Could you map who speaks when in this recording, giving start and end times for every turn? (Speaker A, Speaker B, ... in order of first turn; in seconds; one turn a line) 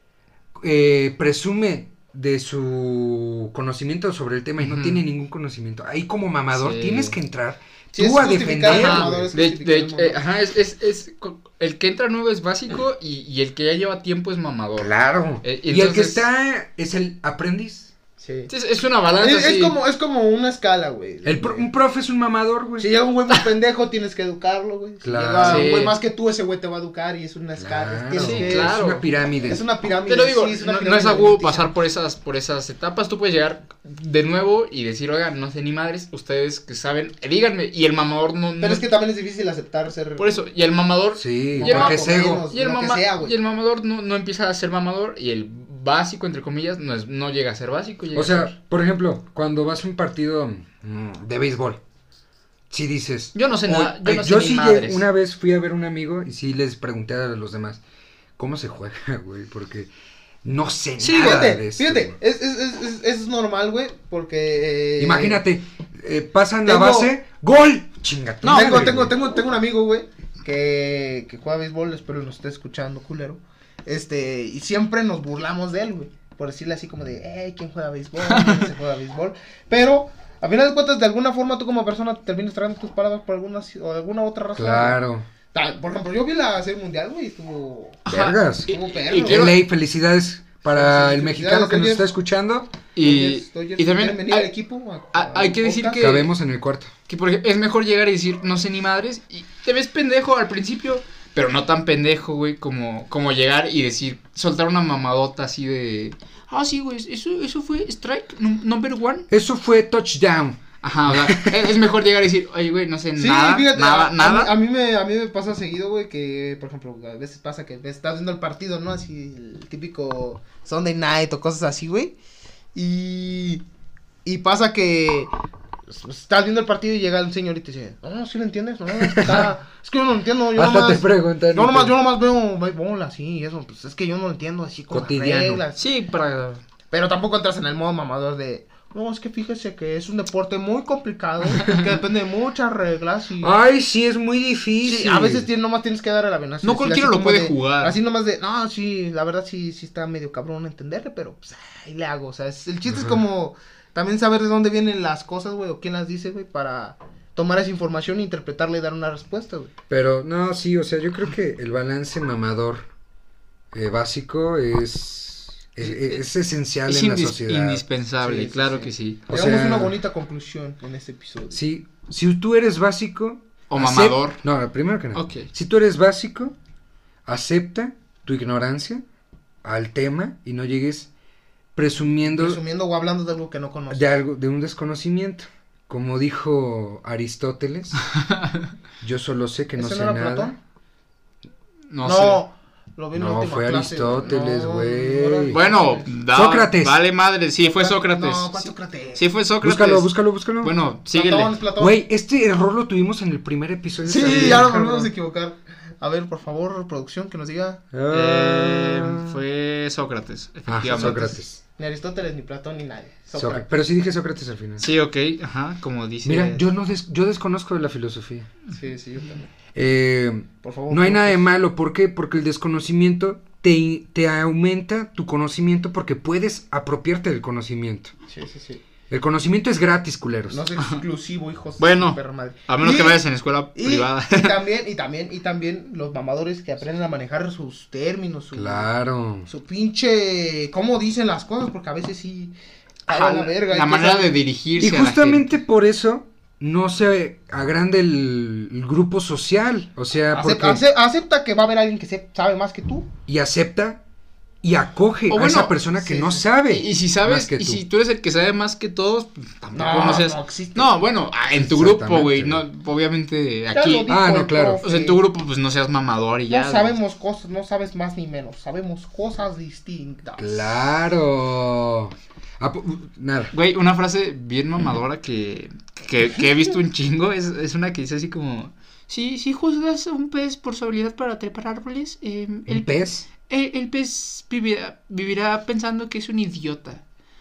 Speaker A: 0.6-9.3
Speaker B: 4.6-5.0
Speaker B: 6.5-7.2
Speaker C: 7.9-10.2
Speaker B: 8.7-16.2
Speaker A: 14.8-17.9
Speaker C: 18.2-18.5
Speaker B: 18.5-19.8
Speaker C: 19.2-21.7
Speaker A: 21.2-22.9
Speaker C: 22.8-28.8
Speaker A: 25.0-25.7
Speaker B: 25.4-26.0
Speaker A: 27.6-29.6
Speaker B: 28.2-29.1
Speaker C: 29.4-31.7
Speaker B: 30.1-38.8
Speaker C: 38.6-40.4
Speaker B: 40.2-48.5
Speaker A: 41.2-42.4
Speaker C: 41.6-43.3
Speaker A: 48.1-51.8
Speaker A: 52.7-57.8
Speaker B: 53.3-55.0
Speaker A: 58.4-59.9
Speaker A: 60.4-62.1
Speaker B: 61.0-61.4
Speaker C: 61.1-65.4
Speaker A: 65.0-69.1
Speaker C: 66.6-67.1
Speaker B: 68.4-68.9
Speaker C: 68.5-85.0
Speaker B: 78.2-78.7
Speaker A: 84.5-85.3
Speaker C: 85.5-88.0
Speaker B: 88.0-89.6
Speaker A: 88.1-88.7
Speaker C: 88.7-89.5
Speaker A: 89.2-92.7
Speaker C: 90.6-92.1
Speaker B: 92.9-94.5
Speaker C: 93.0-96.2
Speaker B: 95.1-96.3
Speaker A: 96.0-96.9
Speaker B: 97.1-109.3
Speaker A: 109.3-111.7
Speaker B: 110.8-114.5
Speaker C: 113.2-122.1
Speaker C: 122.7-123.6
Speaker C: 124.2-125.3
Speaker C: 125.9-135.8
Speaker A: 129.0-129.5
Speaker A: 130.5-131.9
Speaker A: 134.9-135.6
Speaker B: 135.8-136.6
Speaker C: 136.9-143.6
Speaker B: 141.5-141.9
Speaker A: 143.4-145.5
Speaker C: 144.8-159.7
Speaker B: 146.6-147.9
Speaker A: 152.9-153.2
Speaker A: 159.9-162.9
Speaker A: 163.7-167.8
Speaker B: 166.8-169.2
Speaker C: 168.2-171.6
Speaker A: 169.3-169.9
Speaker A: 171.5-176.5
Speaker B: 173.7-174.4
Speaker B: 175.1-175.5
Speaker A: 177.2-179.0
Speaker A: 179.6-181.1
Speaker A: 181.7-182.6
Speaker C: 182.2-184.0
Speaker A: 183.9-188.0
Speaker B: 188.1-188.6
Speaker A: 189.0-190.5
Speaker C: 189.8-190.6
Speaker B: 191.9-192.4
Speaker C: 192.0-196.1
Speaker A: 193.1-195.6
Speaker B: 195.5-201.5
Speaker A: 196.3-196.9
Speaker C: 197.7-199.2
Speaker A: 199.6-200.7
Speaker C: 201.1-202.0
Speaker A: 201.8-205.1
Speaker C: 204.0-207.8
Speaker B: 204.2-204.7
Speaker A: 207.9-209.4
Speaker B: 208.1-211.3
Speaker A: 210.7-211.6
Speaker C: 211.0-213.7
Speaker A: 213.3-214.9
Speaker B: 214.8-216.6
Speaker A: 216.2-218.5
Speaker C: 218.7-219.5
Speaker A: 219.7-228.1
Speaker C: 220.6-221.4
Speaker C: 228.3-228.8
Speaker A: 229.1-230.6
Speaker C: 230.5-233.2
Speaker B: 231.8-234.6
Speaker C: 233.7-238.8
Speaker A: 238.5-239.5
Speaker C: 239.5-242.5
Speaker C: 243.1-244.3
Speaker B: 243.1-245.5
Speaker A: 244.8-250.8
Speaker C: 250.3-253.1
Speaker A: 253.3-254.0
Speaker A: 254.6-257.8
Speaker B: 255.3-255.7
Speaker C: 256.0-256.4
Speaker B: 256.7-264.1
Speaker C: 259.7-260.9
Speaker A: 261.6-262.6
Speaker C: 263.7-265.2
Speaker A: 264.1-264.8
Speaker B: 264.8-267.0
Speaker C: 266.5-271.0
Speaker A: 270.4-273.5
Speaker B: 273.5-287.0
Speaker A: 282.7-283.2